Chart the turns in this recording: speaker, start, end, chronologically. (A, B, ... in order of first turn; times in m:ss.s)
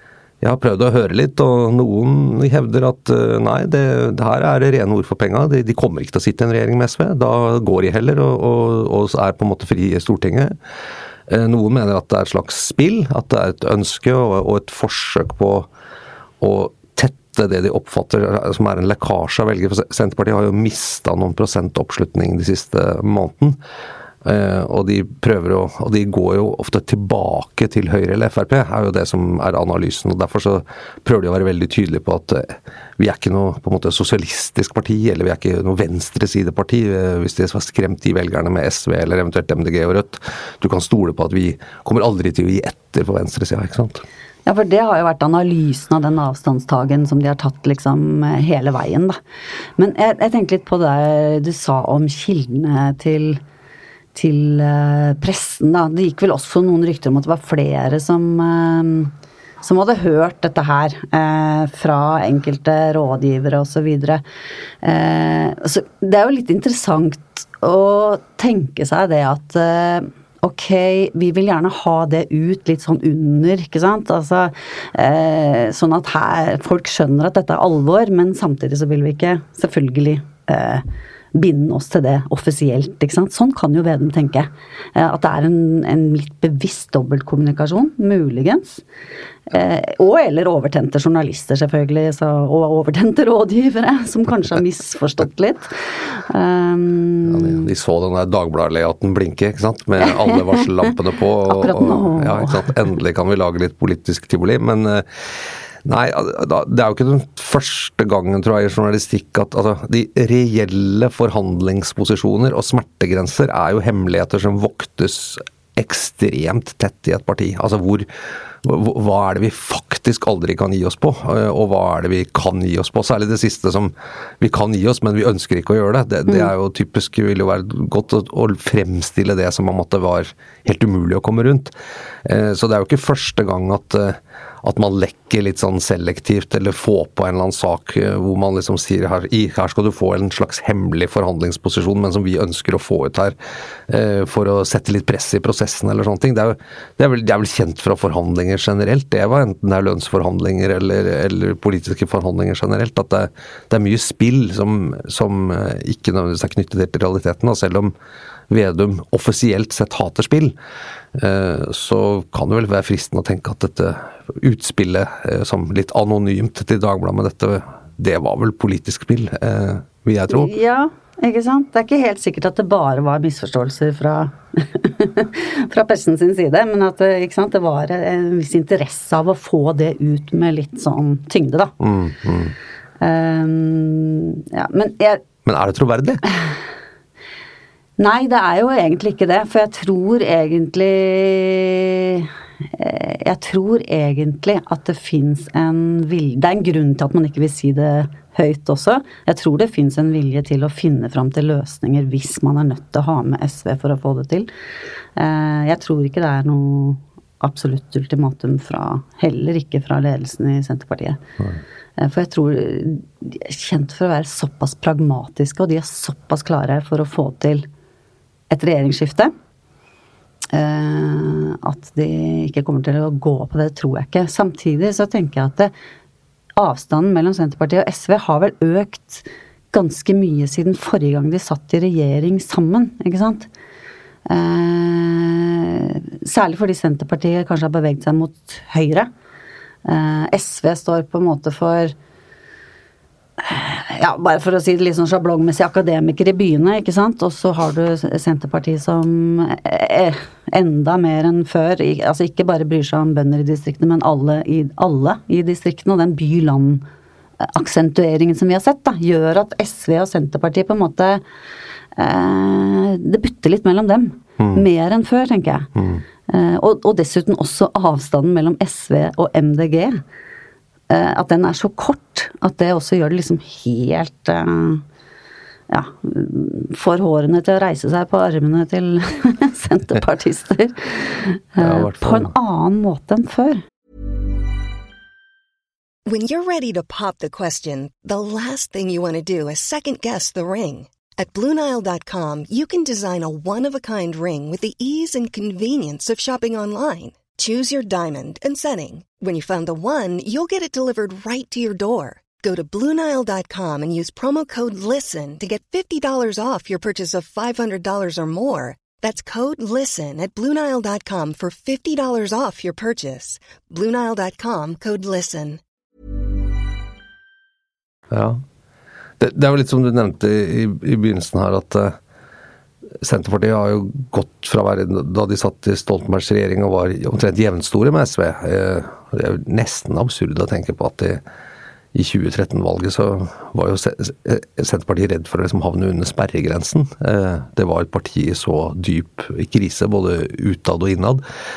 0:00.4-0:10.5 A
0:11.3-0:15.7 A
0:16.4-0:23.6 A
0:24.2-0:44.0 A
0:44.4-0:49.2 B
0:49.8-0:53.4 B
0:54.1-1:04.2 B
1:04.8-1:28.8 B
1:29.5-1:37.7 B
1:37.2-1:45.1 A
1:41.5-1:42.7 B
1:45.8-1:58.1 A
1:58.6-2:11.7 A
2:12.2-2:23.3 A
2:23.9-2:37.9 A
2:38.5-2:40.5 A
2:41.1-2:50.5 A
2:50.3-3:01.7 B
3:01.8-3:02.5 A
3:03.0-3:05.2 B
3:05.4-3:06.2 A
3:08.0-3:24.5 B
3:25.2-3:31.2 B
3:32.0-3:37.7 B
3:38.5-3:39.3 B
3:40.5-3:45.7 B
3:46.6-3:53.5 B
3:54.3-3:59.1 B
3:59.8-4:01.9 B
4:03.4-4:16.8 B
4:17.4-4:21.2 B
4:22.0-4:25.7 B
4:24.4-4:24.6 A
4:25.8-4:26.0 A
4:26.3-4:30.0 B
4:30.9-4:34.8 B
4:35.7-4:43.6 B
4:41.6-4:42.3 A
4:46.0-5:15.6 C
5:18.1-5:18.4 A
5:19.2-5:22.0 A
5:23.0-5:31.2 A
5:31.9-5:41.2 A